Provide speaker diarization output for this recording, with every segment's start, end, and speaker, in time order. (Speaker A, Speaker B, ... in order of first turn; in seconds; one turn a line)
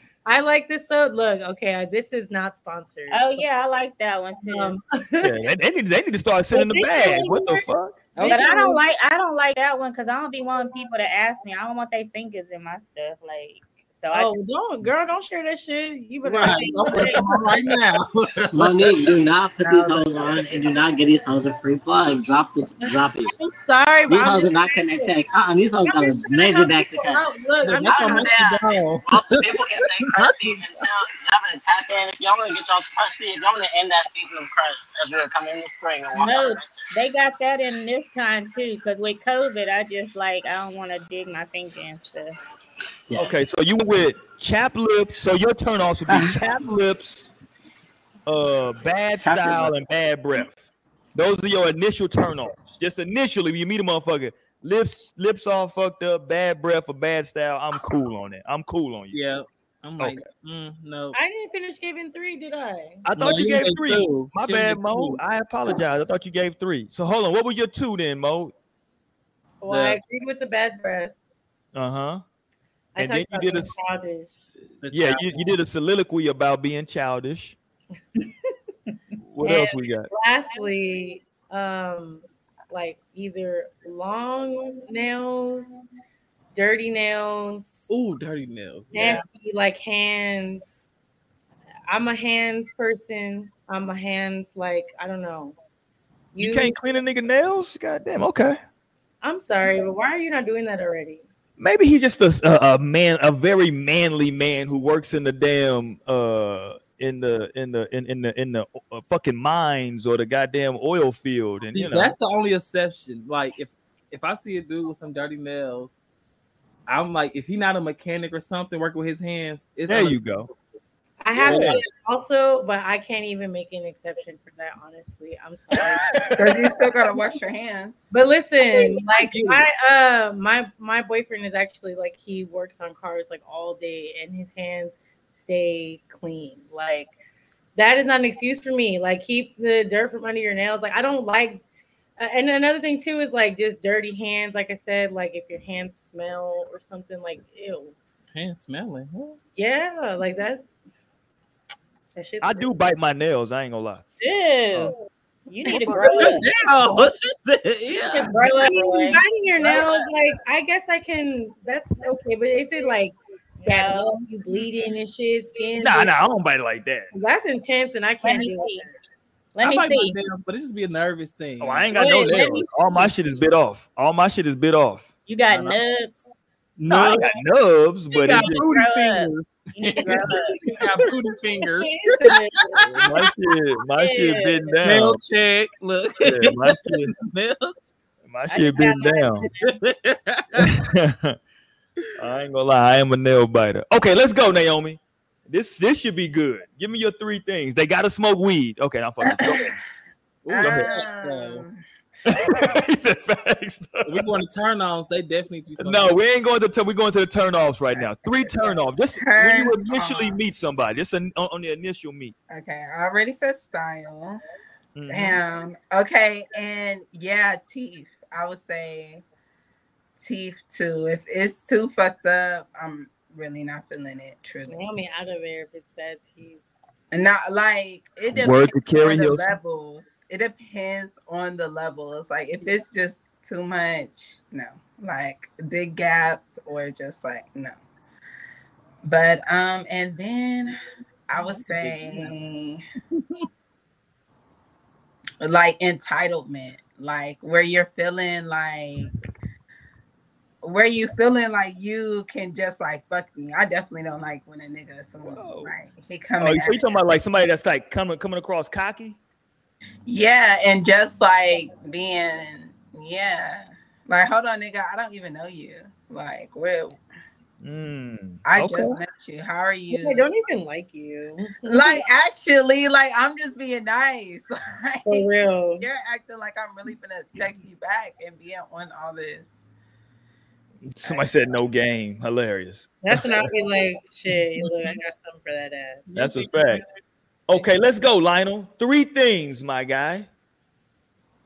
Speaker A: 0.2-3.4
Speaker B: 3.1-4.7
Speaker A: 4.4-5.3
Speaker C: 5.2-8.0
Speaker B: 6.5-7.7
Speaker D: 8.1-8.8
Speaker B: 8.2-14.3
Speaker A: 14.1-17.2
Speaker D: 16.2-18.9
Speaker E: 18.5-23.3
Speaker F: 19.6-20.8
Speaker A: 23.3-25.1
Speaker E: 24.1-36.9
Speaker A: 25.8-28.4
Speaker D: 27.6-30.6
Speaker B: 36.1-42.4
Speaker E: 43.1-43.5
Speaker C: 43.1-47.3
Speaker E: 46.1-46.3
Speaker C: 48.2-50.6
Speaker E: 49.1-49.7
Speaker C: 51.1-59.2
Speaker D: 59.1-61.1
Speaker C: 60.0-60.2
Speaker A: 61.1-63.0
Speaker C: 63.0-68.5
Speaker D: 63.2-65.2
Speaker A: 69.6-71.1
Speaker D: 69.7-70.0
Speaker C: 71.7-72.2
Speaker A: 73.0-74.3
Speaker C: 73.0-73.7
Speaker D: 74.8-75.4
Speaker C: 74.9-77.5
Speaker C: 79.2-80.1
Speaker B: 79.4-79.8
Speaker A: 80.1-85.8
Speaker A: 86.5-87.9
Speaker D: 87.9-89.2
Speaker A: 88.9-90.7
Speaker A: 91.9-95.5
Speaker A: 96.3-96.7
Speaker C: 96.4-98.6
Speaker A: 99.2-101.2
Speaker C: 101.6-112.1
Speaker D: 111.7-116.0
Speaker D: 116.9-120.2
Speaker C: 119.9-120.5
Speaker A: 121.2-126.1
Speaker C: 121.3-121.8
Speaker D: 121.3-121.9
Speaker C: 125.8-126.8
Speaker F: 126.4-128.1
Speaker A: 128.1-137.1
Speaker D: 128.7-129.7
Speaker A: 137.8-141.6
Speaker A: 142.2-147.9
Speaker D: 148.3-149.4
Speaker A: 149.6-150.7
Speaker A: 152.2-152.7
Speaker C: 152.4-154.1
Speaker B: 154.2-154.9
Speaker B: 155.5-156.4
Speaker C: 155.7-157.1
Speaker D: 156.0-158.7
Speaker B: 158.0-160.0
Speaker A: 158.3-166.1
Speaker B: 163.6-164.2
Speaker C: 165.8-167.1
Speaker A: 167.1-169.0
Speaker B: 168.2-168.9
Speaker B: 169.5-170.2
Speaker D: 169.6-172.0
Speaker C: 171.6-175.1
Speaker B: 171.9-173.1
Speaker B: 175.2-176.2
Speaker D: 175.5-175.8
Speaker D: 176.8-177.3
Speaker C: 176.9-179.2
Speaker D: 178.1-183.1
Speaker B: 178.3-180.6
Speaker A: 181.9-182.8
Speaker C: 182.9-185.2
Speaker B: 183.9-184.8
Speaker D: 184.8-187.8
Speaker C: 186.2-187.1
Speaker C: 188.2-189.5
Speaker B: 188.5-189.7
Speaker D: 189.6-190.7
Speaker C: 190.6-191.4
Speaker C: 192.2-199.8
Speaker F: 199.2-199.8
Speaker D: 200.4-201.6
Speaker C: 200.5-201.1
Speaker F: 200.5-202.7
Speaker C: 202.3-204.2
Speaker D: 204.1-206.1
Speaker C: 205.8-212.3
Speaker F: 207.9-210.4
Speaker F: 212.5-214.4
Speaker C: 214.9-215.4
Speaker F: 215.1-219.2
Speaker F: 220.2-224.8
Speaker A: 224.7-226.6
Speaker F: 227.1-237.8
Speaker C: 228.3-229.5
Speaker F: 239.0-240.8
Speaker F: 241.3-242.8
Speaker D: 241.9-242.3
Speaker D: 243.2-243.5
Speaker F: 245.4-249.2
Speaker F: 250.6-257.0
Speaker C: 255.2-255.7
Speaker C: 256.4-259.2
Speaker F: 260.1-267.0
Speaker C: 267.6-269.0
Speaker F: 268.4-270.3
Speaker A: 269.9-272.1
Speaker F: 271.6-275.3
Speaker A: 275.1-275.8
Speaker F: 275.8-279.5
Speaker C: 280.8-283.5
Speaker F: 281.0-281.5
Speaker A: 283.0-286.5
Speaker C: 284.6-284.9
Speaker C: 286.1-286.8
Speaker C: 287.5-290.3